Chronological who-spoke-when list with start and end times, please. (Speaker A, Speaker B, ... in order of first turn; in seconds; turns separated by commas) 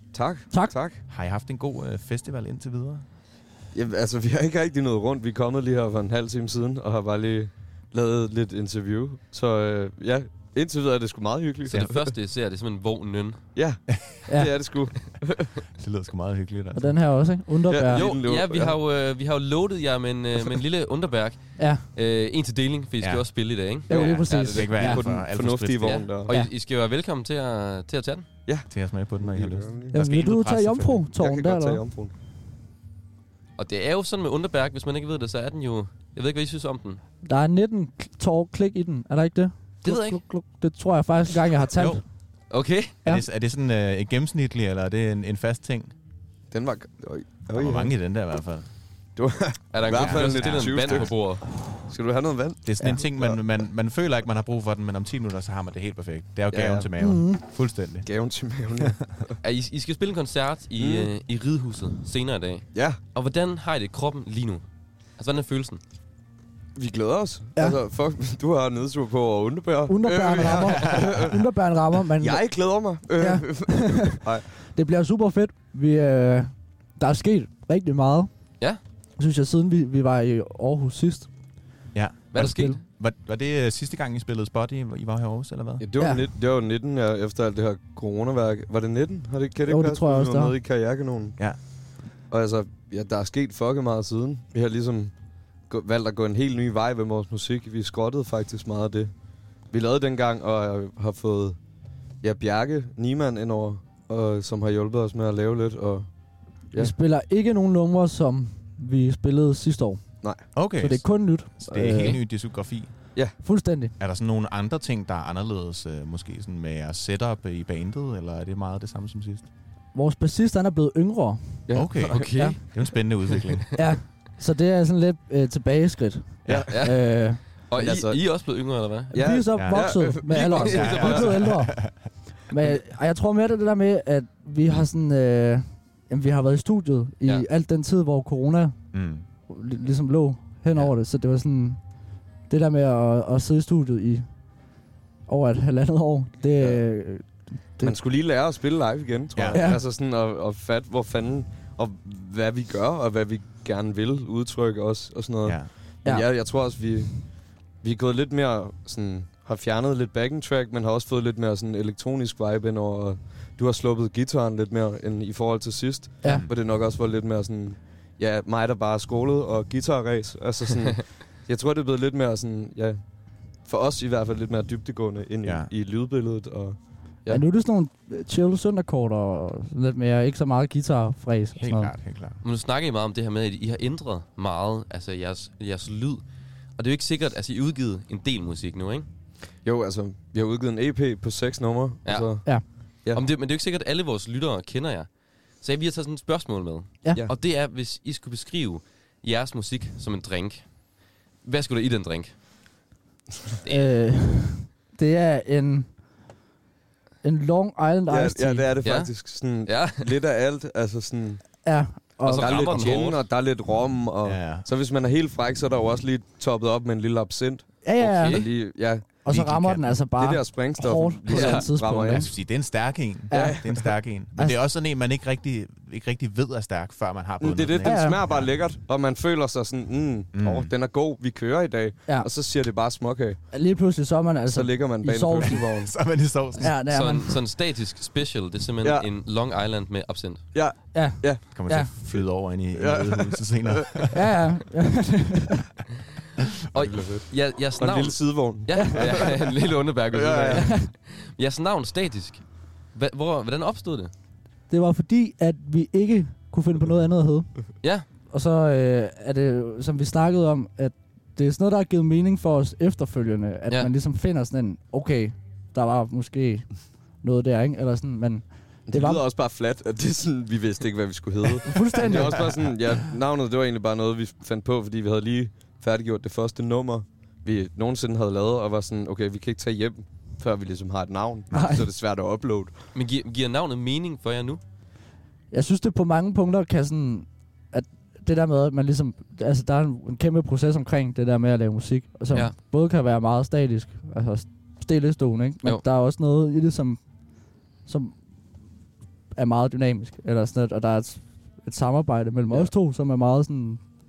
Speaker A: 0.1-1.0, Speaker B: 1.1-3.0, Speaker A: 3.7-12.1, Speaker C: 11.7-13.4, Speaker A: 13.5-15.5, Speaker B: 15.7-17.3, Speaker D: 16.7-18.1, Speaker A: 17.7-18.8, Speaker C: 17.8-24.7, Speaker D: 21.6-21.9, Speaker B: 23.0-26.1, Speaker D: 23.9-25.1, Speaker A: 23.9-26.3, Speaker C: 25.8-28.2, Speaker A: 28.4-29.9, Speaker B: 28.6-31.1, Speaker D: 29.9-31.8, Speaker A: 31.2-32.1, Speaker C: 33.6-37.0, Speaker D: 37.2-42.1, Speaker C: 39.8-40.2, Speaker B: 41.7-42.0, Speaker C: 42.5-42.9, Speaker B: 43.0-45.9, Speaker A: 46.5-48.0, Speaker B: 47.5-48.8, Speaker A: 49.1-53.4, Speaker C: 49.7-51.4, Speaker B: 49.8-51.1, Speaker B: 52.6-58.9, Speaker A: 56.5-56.9, Speaker D: 57.0-57.4, Speaker A: 58.0-59.3, Speaker C: 59.4-65.8, Speaker A: 60.8-61.1, Speaker A: 62.7-63.0, Speaker A: 66.7-71.4, Speaker D: 69.9-78.3, Speaker A: 72.2-74.5, Speaker D: 79.2-81.3, Speaker B: 81.9-85.8, Speaker C: 82.3-82.8, Speaker D: 82.4-82.8, Speaker A: 85.8-91.7, Speaker D: 89.7-90.6, Speaker A: 92.3-95.2, Speaker A: 95.7-99.1, Speaker A: 99.7-101.6, Speaker A: 102.2-106.1, Speaker A: 106.6-106.9, Speaker D: 106.7-112.2, Speaker A: 110.2-110.5, Speaker B: 110.5-113.3, Speaker D: 113.4-113.9, Speaker B: 114.0-119.5, Speaker D: 119.9-122.6, Speaker A: 121.7-122.4, Speaker B: 121.7-123.9, Speaker C: 122.0-122.6, Speaker D: 123.7-127.4, Speaker B: 126.5-126.8, Speaker C: 126.7-129.5, Speaker A: 127.7-131.4, Speaker D: 129.2-138.9, Speaker B: 129.5-131.9, Speaker C: 130.3-131.4, Speaker B: 138.9-139.2, Speaker D: 139.4-147.9, Speaker A: 146.6-146.9, Speaker A: 147.8-177.4, Speaker B: 149.3-149.7, Speaker D: 149.5-149.8, Speaker B: 155.4-155.7, Speaker D: 156.0-156.3, Speaker B: 166.2-166.5, Speaker B: 175.4-175.7, Speaker D: 177.3-181.9, Speaker B: 181.6-182.4, Speaker C: 182.4-189.1, Speaker A: 189.6-193.2, Speaker C: 192.0-202.4, Speaker C: 203.6-203.9, Speaker D: 203.7-206.2, Speaker D: 207.2-208.7, Speaker A: 208.1-211.6, Speaker C: 208.8-210.2, Speaker D: 211.6-212.6, Speaker C: 212.2-213.2, Speaker A: 212.3-219.1, Speaker B: 214.2-214.7, Speaker D: 217.8-218.4, Speaker C: 218.0-218.5, Speaker D: 219.2-222.3, Speaker B: 219.2-220.0, Speaker A: 220.2-222.3, Speaker C: 221.3-221.7, Speaker B: 221.9-228.5, Speaker D: 223.3-224.6, Speaker A: 223.3-223.9, Speaker A: 227.4-233.4, Speaker D: 227.8-228.2, Speaker B: 230.3-230.7, Speaker D: 233.5-235.6, Speaker A: 234.5-235.9, Speaker B: 235.6-237.2, Speaker D: 236.6-237.3, Speaker C: 236.7-240.5, Speaker A: 238.8-239.1, Speaker A: 240.5-244.1, Speaker D: 240.9-241.9, Speaker B: 241.2-244.4, Speaker D: 244.1-245.6, Speaker C: 246.7-254.1, Speaker A: 246.9-247.3, Speaker A: 247.8-249.2, Speaker D: 248.7-249.2, Speaker A: 250.1-250.7, Speaker D: 250.5-250.9, Speaker D: 254.7-269.2, Speaker A: 268.9-282.9, Speaker D: 271.7-272.4, Speaker D: 281.5-281.8, Speaker C: 282.9-284.6, Speaker D: 285.5-298.1, Speaker C: 292.3-292.6, Speaker D: 299.3-303.8